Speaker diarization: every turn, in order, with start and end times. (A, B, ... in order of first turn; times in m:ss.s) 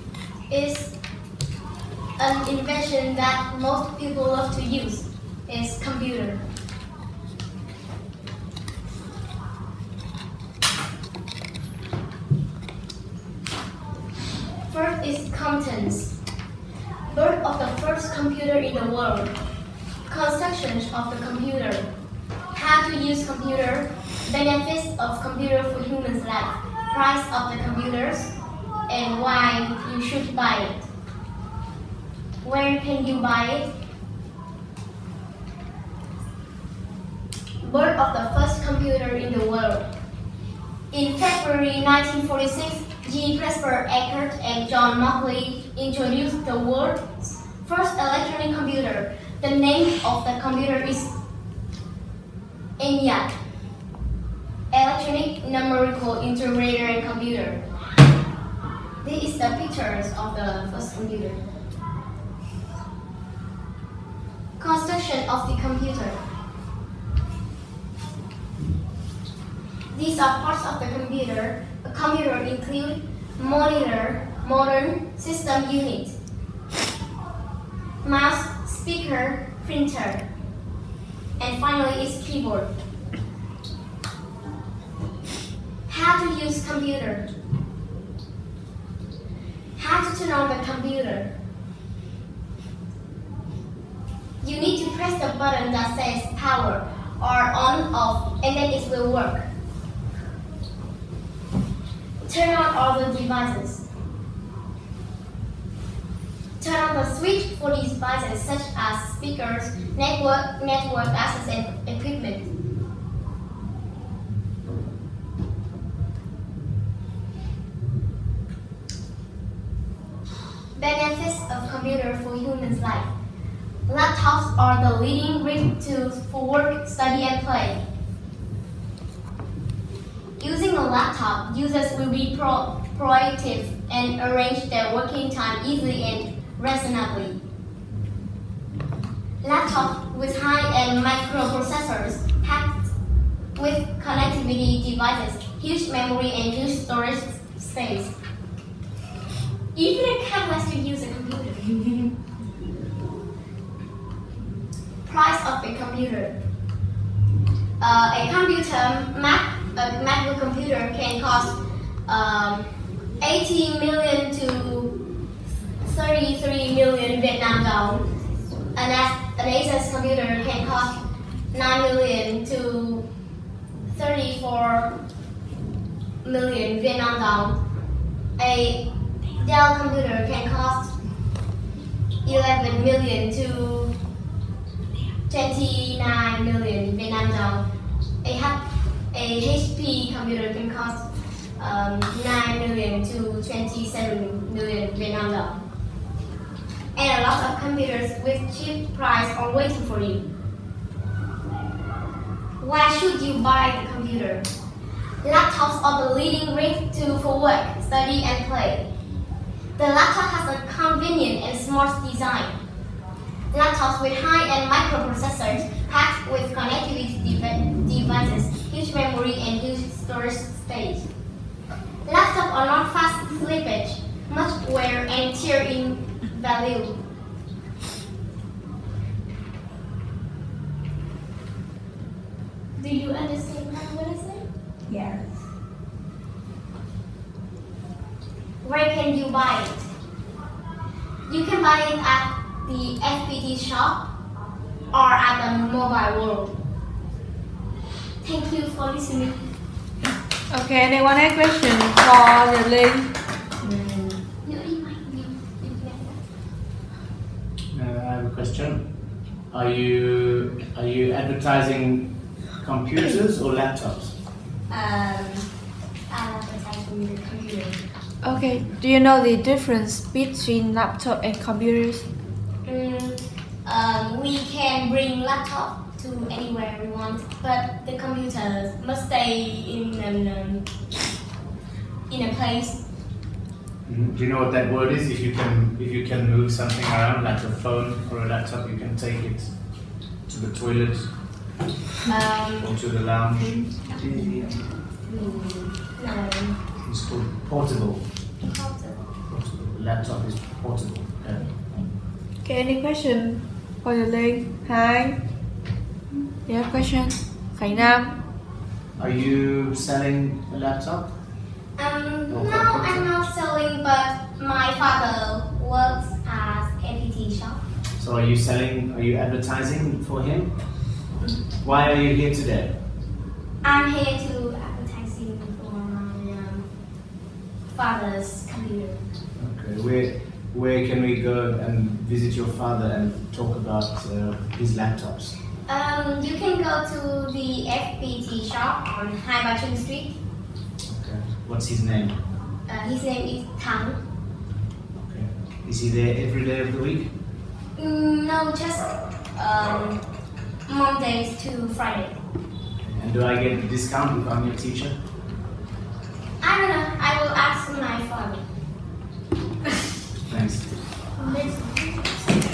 0:00.5-0:00.9 A
0:02.2-0:06.4 A
0:14.7-0:16.2 A
0:17.1-0:19.3 A
0:20.0-0:21.9 A
0:22.5-0:28.3 A
0:28.9-0:30.9 A
0:32.4-0:33.7 A
0:37.6-0:39.9 A
0:40.9-0:51.1 A
0:52.8-0:53.3 A
0:54.7-0:57.6 A
0:59.0-1:01.4 A
1:04.6-1:06.2 A
1:09.9-1:16.1 A
1:18.0-1:20.2 A
1:21.4-1:22.7 A
1:25.9-1:27.3 A
1:29.8-1:31.3 A
1:34.4-1:39.4 A
1:42.3-1:43.8 A
1:46.6-1:52.5 A
2:00.8-2:03.1 A
2:03.9-2:07.8 A
2:10.4-2:17.4 A
2:19.4-2:22.9 A
2:23.6-2:28.1 A
2:29.7-2:32.0 A
2:35.0-2:36.4 A
2:37.8-2:42.6 A
2:43.2-2:45.0 A
2:45.8-2:48.0 A
2:48.7-2:51.0 A
2:51.5-2:53.1 A
2:53.9-2:54.9 A
2:56.2-2:57.6 A
2:58.4-2:58.8 A
2:59.4-3:00.9 A
3:02.2-3:03.9 A
3:05.3-3:07.6 A
3:08.2-3:11.0 A
3:11.6-3:15.6 A
3:16.9-3:20.3 A
3:22.6-3:24.5 A
3:25.2-3:28.9 A
3:29.8-3:32.6 A
3:33.5-3:41.1 A
3:42.0-3:47.0 A
3:52.8-3:54.5 A
3:58.6-3:59.9 A
4:01.3-4:04.1 A
4:04.9-4:06.6 A
4:08.2-4:09.4 A
4:10.5-4:13.1 B
4:13.6-4:16.2 A
4:17.7-4:18.9 C
4:19.5-4:24.1 C
4:24.7-4:25.5 A
4:26.1-4:27.8 A
4:28.2-4:32.0 B
4:28.5-4:28.8 C
4:32.6-4:40.7 A
4:42.1-4:42.8 A
4:43.8-4:49.5 C
4:50.2-4:51.1 C
4:52.0-4:52.7 A
4:52.6-4:54.6 C
4:55.0-4:56.6 A
4:56.8-4:58.0 C
4:58.4-4:59.0 A
4:59.3-5:01.6 C
5:02.4-5:05.2 B
5:06.4-5:08.2 B
5:09.0-5:11.1 C
5:11.8-5:17.6 A
5:12.3-5:13.1 C
5:18.0-5:20.6 C
5:21.6-5:22.7 C
5:23.6-5:26.6 A
5:27.7-5:29.0 A
5:29.4-5:35.3 C
5:35.7-5:40.2 A
5:40.9-5:42.2 C
5:42.7-5:44.0 A
5:45.0-5:47.1 C
5:47.8-5:50.0 A
5:50.6-5:52.2 A
5:52.9-5:55.0 C
5:56.4-5:58.4 A
6:00.3-6:00.8 C
6:01.2-6:02.2 A